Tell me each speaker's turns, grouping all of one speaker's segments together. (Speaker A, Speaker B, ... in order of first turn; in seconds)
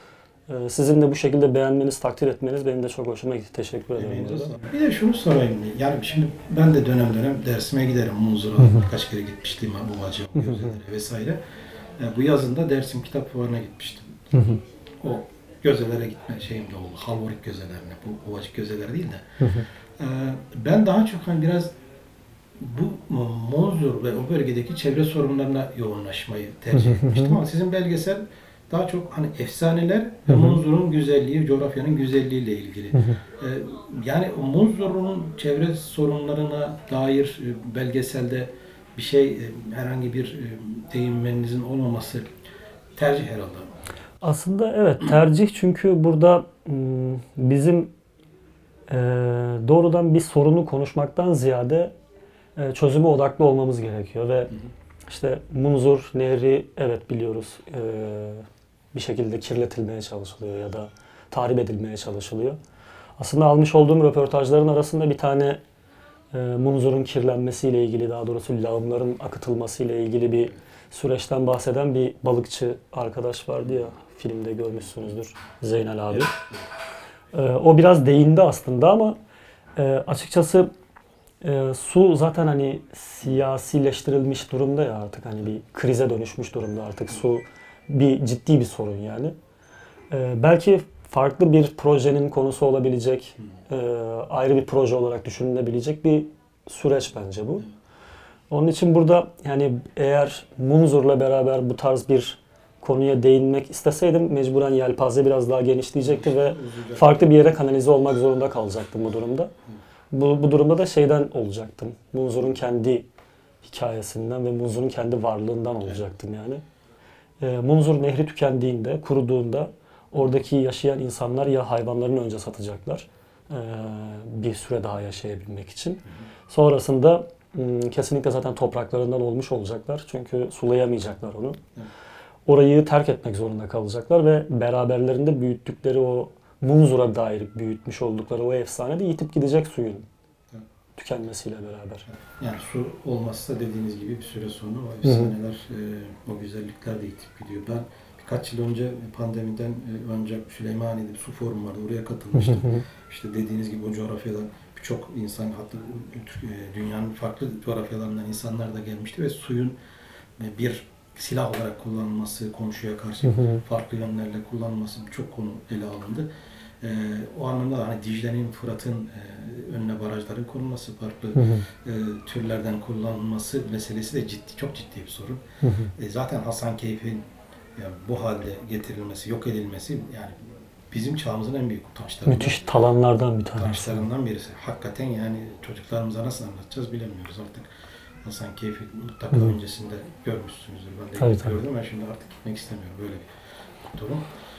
Speaker A: 0.5-4.5, 8.6-8.9, 10.4-10.8, 14.3-14.6, 19.4-19.7, 26.7-27.4, 30.3-30.6, 32.9-33.2, 44.2-47.9, 48.9-51.9, 52.6-54.6, 55.1-62.6, 63.2-65.6, 66.3-76.4, 77.3-79.2, 79.8-80.7, 81.4-89.3, 90.1-97.7, 98.5-109.5, 110.1-113.1, 113.6-116.6, 117.4-131.6, 132.5-140.1, 141.0-142.1, 145.0-145.3, 152.3-152.8, 163.2-163.6, 171.3-171.7, 175.6-175.9, 182.3-184.1, 191.2-191.6
Speaker B: 4.0-11.4, 12.0-14.1, 15.0-19.3, 20.0-21.7, 22.6-42.3, 43.0-43.7, 76.1-76.4, 106.0-107.4, 142.1-159.8, 160.4-166.3, 166.8-175.4, 175.9-177.2, 177.8-182.6, 183.6-187.7, 188.2-193.3, 193.8-194.3